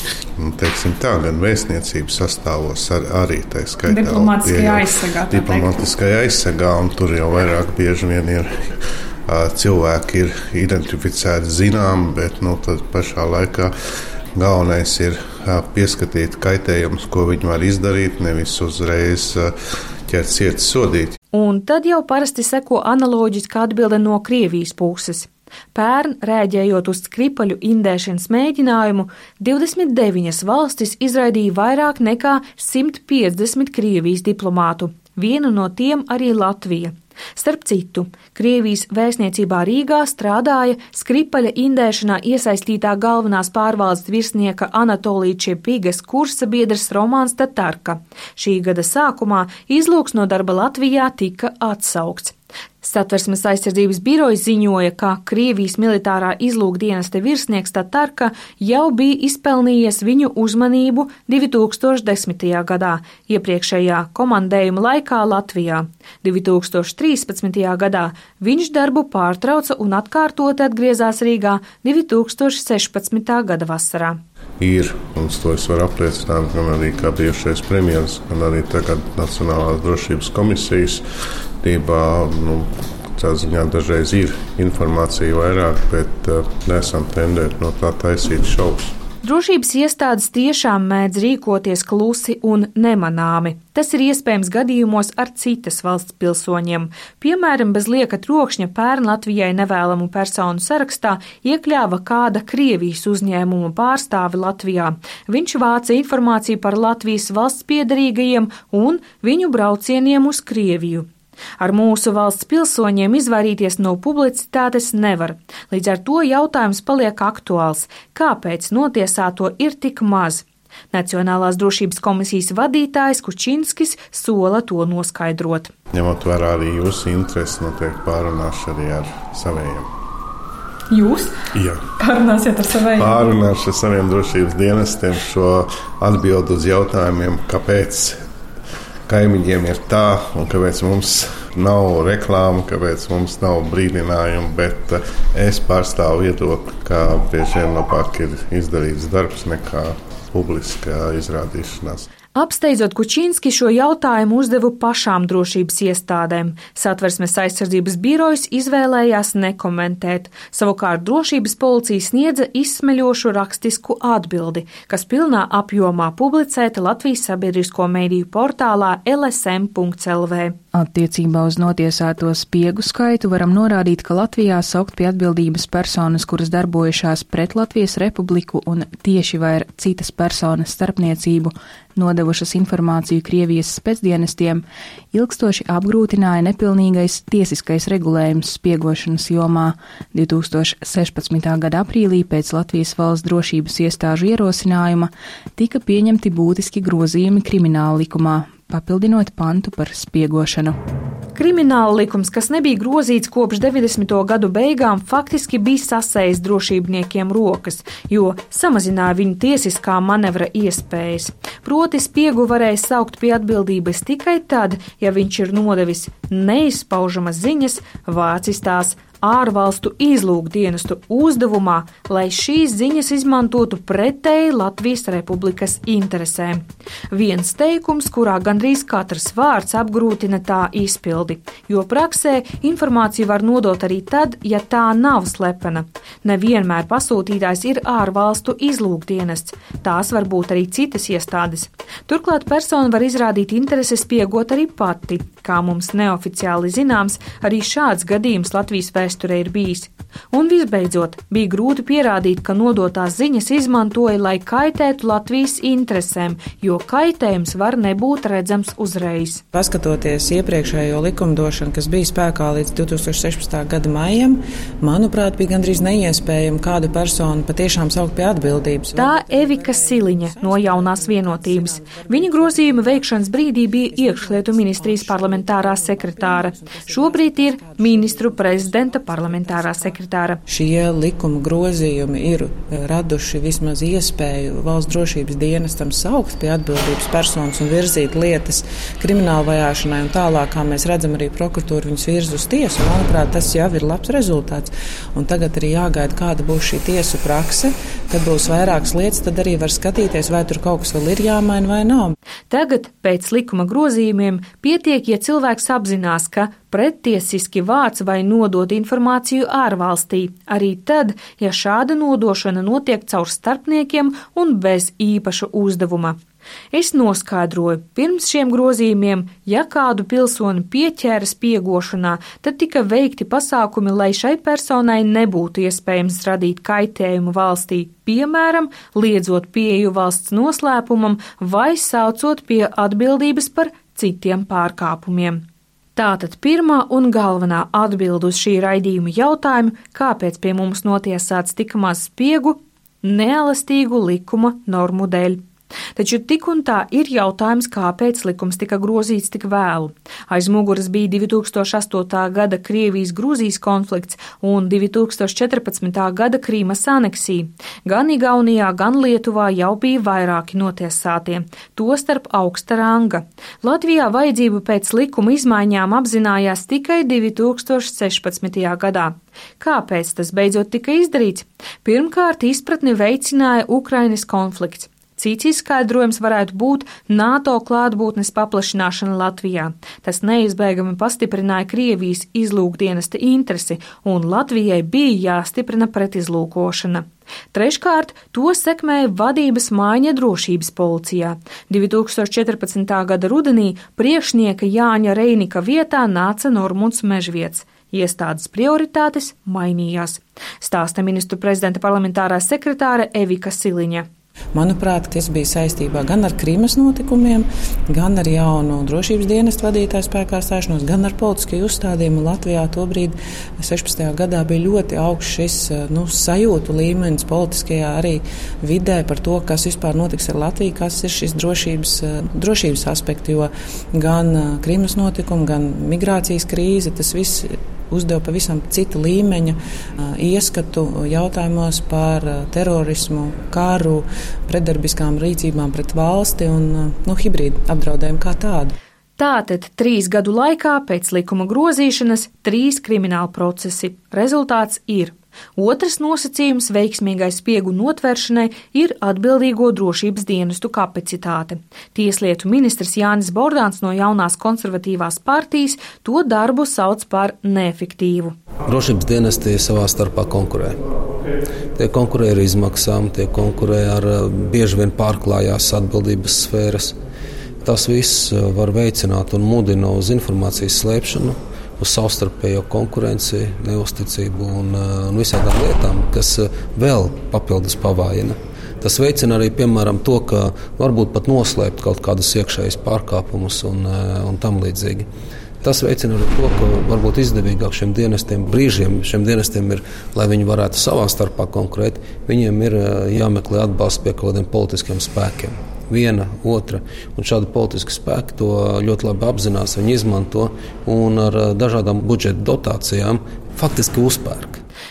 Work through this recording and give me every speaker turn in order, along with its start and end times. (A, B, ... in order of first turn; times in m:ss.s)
0:00.4-0:08.6 A
0:03.9-0:05.7 B
0:09.3-0:13.7 A
0:14.4-0:19.5 A
0:20.1-0:21.2 A
0:21.3-1:14.2 B
1:14.6-1:21.0 A
1:21.6-1:28.9 A
1:29.2-1:51.1 B
1:51.6-2:05.7 B
2:05.9-2:09.9 A
2:10.9-2:11.4 B
2:11.5-2:11.8 A
2:12.0-2:13.2 B
2:13.0-2:18.2 A
2:19.1-2:32.1 A
2:32.3-2:50.6 B
2:50.7-3:20.8 C
3:21.3-4:19.4 B
4:19.5-5:02.1 D
4:28.9-4:40.4 B
5:02.5-5:16.2 B
5:16.7-5:35.4 B
5:36.0-5:45.4 B
5:46.0-6:44.1 B
6:44.5-7:18.7 D
7:19.2-7:38.3 B
7:38.6-7:40.8 E
7:41.7-7:47.0 E
7:47.6-8:05.1 E
8:05.6-8:24.6 E